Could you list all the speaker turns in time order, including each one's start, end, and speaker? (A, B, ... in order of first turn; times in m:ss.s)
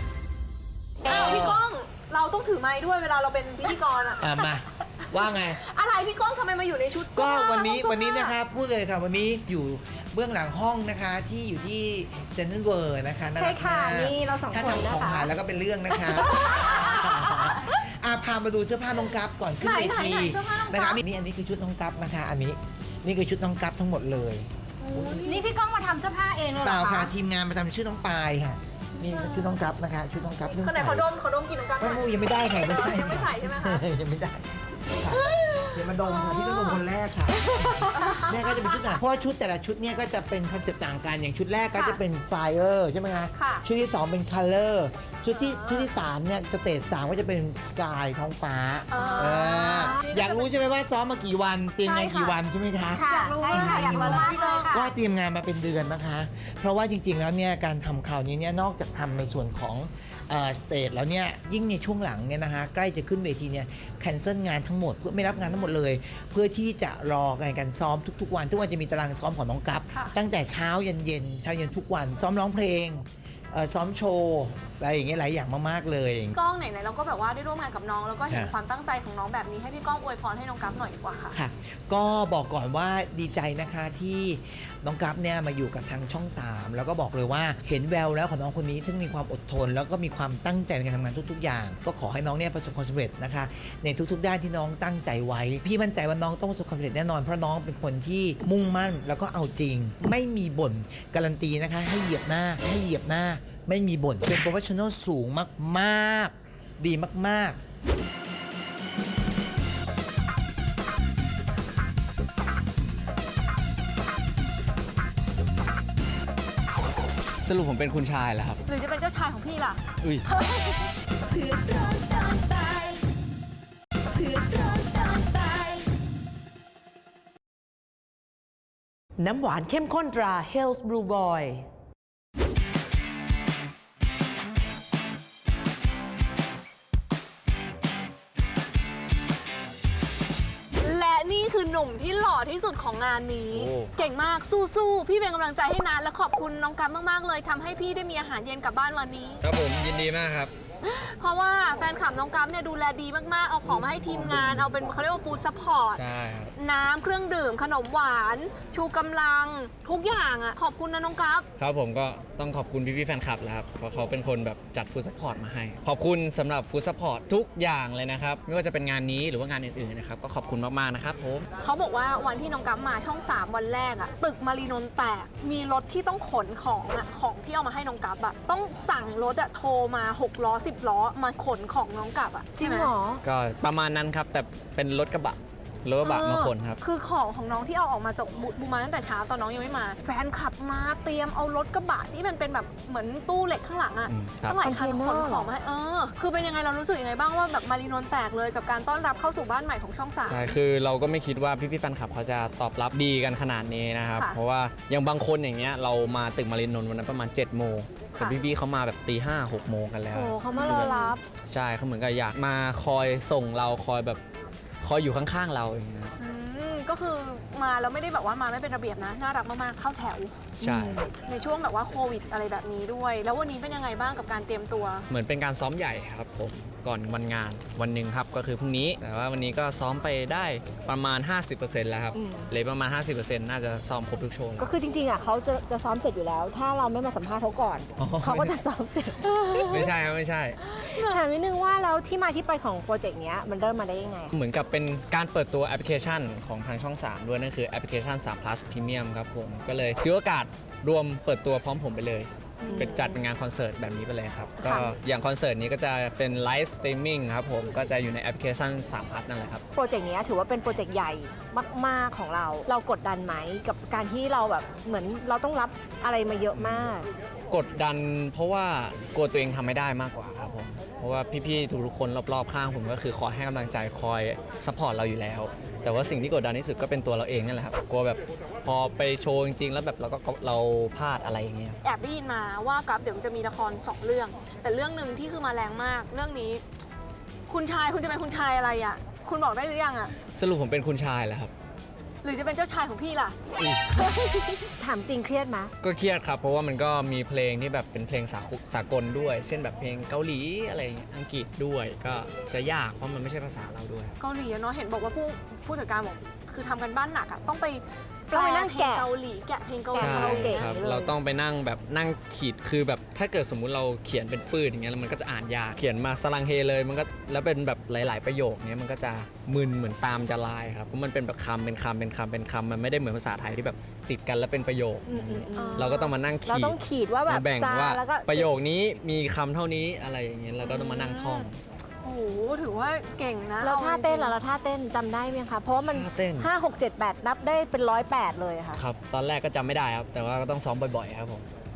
0:01.0-0:04.4 A
0:01.1-0:01.6 B
0:01.1-0:01.4 C
0:04.2-0:05.6 B
0:05.2-0:08.4 A
0:07.0-0:25.2 B
0:13.4-0:15.3 C
0:16.0-0:17.1 C
0:16.0-0:17.6 A
0:19.6-0:21.0 A
0:24.8-0:25.4 A
0:25.2-0:27.1 C
0:26.6-0:31.1 B
0:29.0-0:29.6 A
0:30.4-0:33.8 A
0:31.8-1:16.4 B
0:35.1-0:36.8 A
0:37.4-0:39.0 A
0:41.7-0:42.0 A
0:43.3-0:43.6 A
0:45.3-0:45.9 A
0:48.9-0:50.5 A
0:49.0-0:50.1 C
0:51.8-0:52.4 A
0:52.9-0:54.9 C
0:52.9-0:54.9 A
1:16.3-1:21.4 A
1:18.3-1:18.5 B
1:21.3-1:47.6 B
1:57.4-1:58.6 D
1:58.7-2:00.9 A
2:09.2-2:11.6 E
2:20.8-2:29.4 A
2:23.5-2:23.9 D
2:29.4-2:30.5 D
2:30.8-2:36.0 A
2:35.9-2:36.5 D
2:36.6-2:41.4 A
2:41.6-2:51.5 D
2:51.6-3:02.9 A
3:02.6-3:03.2 C
3:03.2-3:06.8 D
3:06.0-3:20.5 A
3:14.0-3:14.6 D
3:14.6-3:15.5 C
3:20.2-3:34.2 D
3:30.1-3:31.2 C
3:30.5-3:31.1 A
3:34.8-3:36.1 D
3:36.2-3:40.6 A
3:40.6-3:41.0 C
3:40.6-3:41.0 D
3:41.1-3:45.0 A
3:45.1-3:54.7 D
3:52.1-3:52.5 C
3:54.6-3:59.9 C
3:58.0-3:58.5 D
3:59.6-4:00.6 D
4:00.8-4:04.3 C
4:04.3-4:19.6 D
4:12.6-4:12.9 A
4:12.6-4:13.2 C
4:14.6-4:14.9 C
4:19.7-4:27.1 C
4:26.5-4:26.9 D
4:27.5-4:41.8 D
4:41.8-4:46.6 A
4:47.5-4:50.1 A
4:50.3-4:51.5 D
4:52.2-4:53.4 A
4:53.6-4:53.8 D
4:53.9-4:54.7 A
4:54.8-4:55.7 C
4:55.8-5:04.1 D
5:04.2-5:10.8 A
5:08.3-5:09.1 C
5:09.9-5:11.1 C
5:09.9-5:31.6 D
5:25.1-5:28.5 C
5:25.5-5:26.1 A
5:30.6-5:31.5 A
5:32.0-5:34.3 A
5:33.6-5:38.8 C
5:35.9-5:36.5 D
5:38.7-5:41.5 D